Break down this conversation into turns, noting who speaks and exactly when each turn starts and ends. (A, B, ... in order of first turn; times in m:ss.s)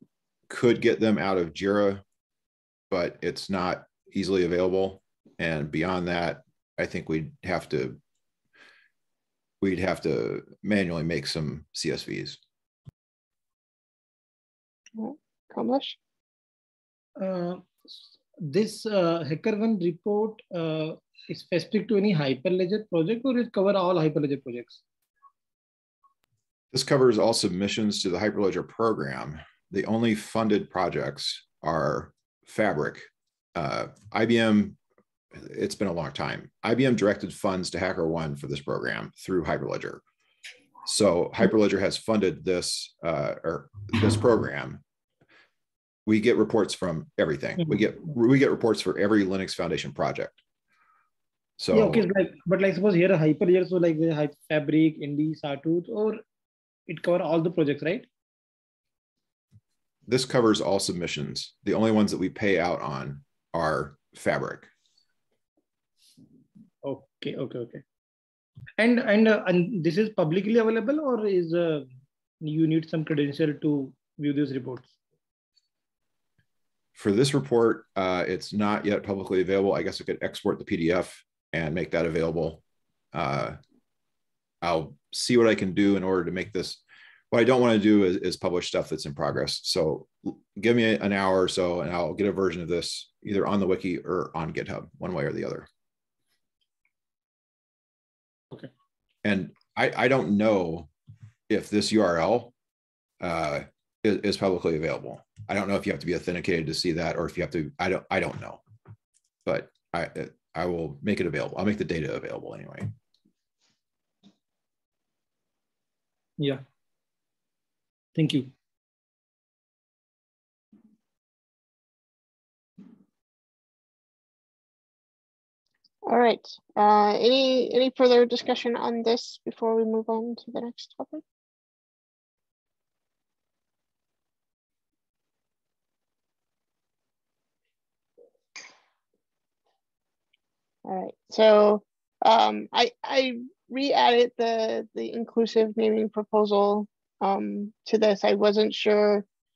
0:00.5-0:02.0 A
0:02.9-0:08.0 A
0:09.6-0:12.4 A
0:15.0-0:16.0 B
0:17.2-0:24.8 C
0:26.7-0:34.8 A
0:35.3-0:40.0 A
0:40.8-0:44.8 A
0:46.1-0:50.4 A
0:51.6-0:52.1 A
0:51.7-0:56.2 C
0:56.9-0:58.1 C
1:00.1-1:04.7 A
1:06.8-1:07.8 C
1:08.8-1:11.9 C
1:12.4-1:14.9 C
1:17.0-1:22.6 A
1:23.1-1:23.6 A
1:24.6-1:35.7 A
1:39.2-1:40.9 A
1:41.5-1:42.5 A
1:43.2-1:48.6 A
1:49.4-1:52.9 A
1:58.1-1:58.5 C
2:06.1-2:11.2 B
2:20.9-2:29.3 B